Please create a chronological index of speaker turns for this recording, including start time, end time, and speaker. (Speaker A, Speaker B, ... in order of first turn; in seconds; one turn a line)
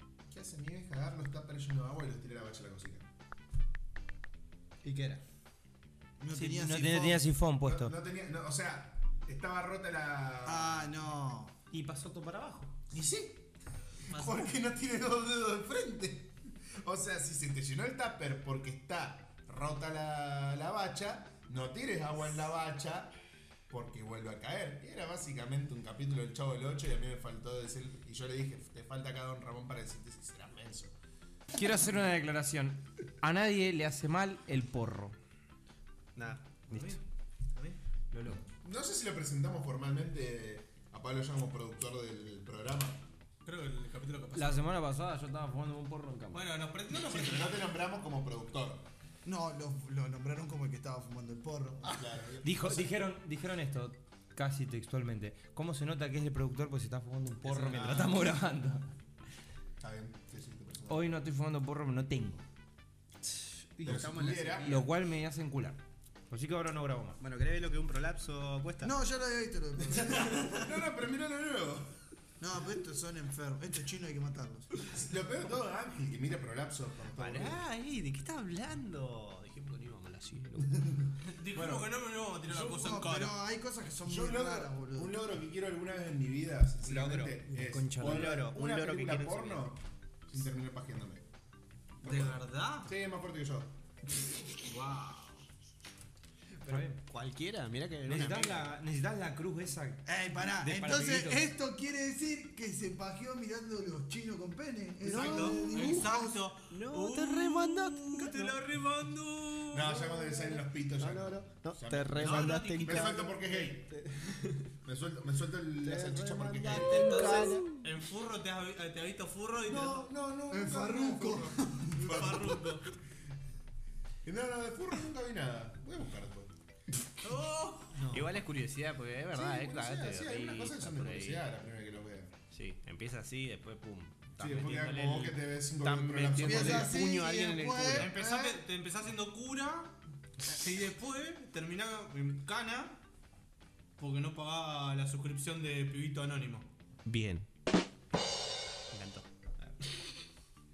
Speaker A: 0.3-3.1
Speaker B: 4.8-5.2
Speaker C: 6.2-7.3
Speaker D: 6.3-7.9
Speaker A: 7.6-11.0
Speaker C: 10.4-11.6
Speaker D: 11.7-12.8
Speaker A: 12.9-13.5
Speaker A: 14.0-23.1
Speaker E: 14.1-14.5
Speaker A: 23.7-30.9
Speaker D: 31.5-35.2
Speaker B: 36.2-36.5
Speaker E: 36.7-37.0
Speaker D: 36.7-37.0
Speaker E: 37.5-37.8
Speaker D: 38.1-38.5
Speaker A: 38.5-43.0
Speaker E: 43.5-44.7
Speaker D: 44.3-46.5
Speaker E: 46.3-47.7
Speaker A: 46.9-48.9
Speaker C: 49.2-52.1
Speaker A: 51.8-53.0
Speaker D: 52.4-58.9
Speaker A: 57.5-58.3
Speaker A: 59.8-61.1
Speaker D: 60.9-62.4
Speaker B: 63.8-64.9
Speaker A: 63.8-64.8
Speaker D: 64.6-67.2
Speaker B: 67.2-69.0
Speaker C: 68.8-70.5
Speaker A: 70.1-72.0
Speaker C: 72.4-74.7
Speaker A: 74.9-77.6
Speaker B: 77.2-80.8
Speaker E: 81.2-83.4
Speaker A: 81.5-81.9
Speaker C: 82.5-85.2
Speaker A: 84.0-91.2
Speaker B: 86.9-87.3
Speaker D: 87.2-88.4
Speaker B: 88.0-89.7
Speaker E: 92.0-92.9
Speaker A: 92.0-93.8
Speaker E: 94.6-95.4
Speaker D: 96.7-97.0
Speaker B: 96.7-98.7
Speaker D: 98.0-101.5
Speaker C: 100.1-106.4
Speaker B: 105.1-106.1
Speaker E: 105.1-109.9
Speaker B: 106.7-108.6
Speaker A: 109.7-113.9
Speaker B: 109.9-114.7
Speaker E: 112.2-113.2
Speaker A: 114.8-117.5
Speaker B: 115.8-117.7
Speaker E: 116.9-120.1
Speaker A: 119.7-122.9
Speaker C: 120.5-122.3
Speaker E: 122.0-122.9
Speaker A: 124.2-126.5
Speaker E: 127.2-128.3
Speaker B: 128.1-131.4
Speaker A: 129.3-132.3
Speaker B: 132.5-138.1
Speaker A: 134.4-137.0
Speaker C: 136.4-138.6
Speaker E: 137.9-143.0
Speaker E: 144.0-146.7
Speaker B: 147.1-147.5
Speaker B: 148.9-149.7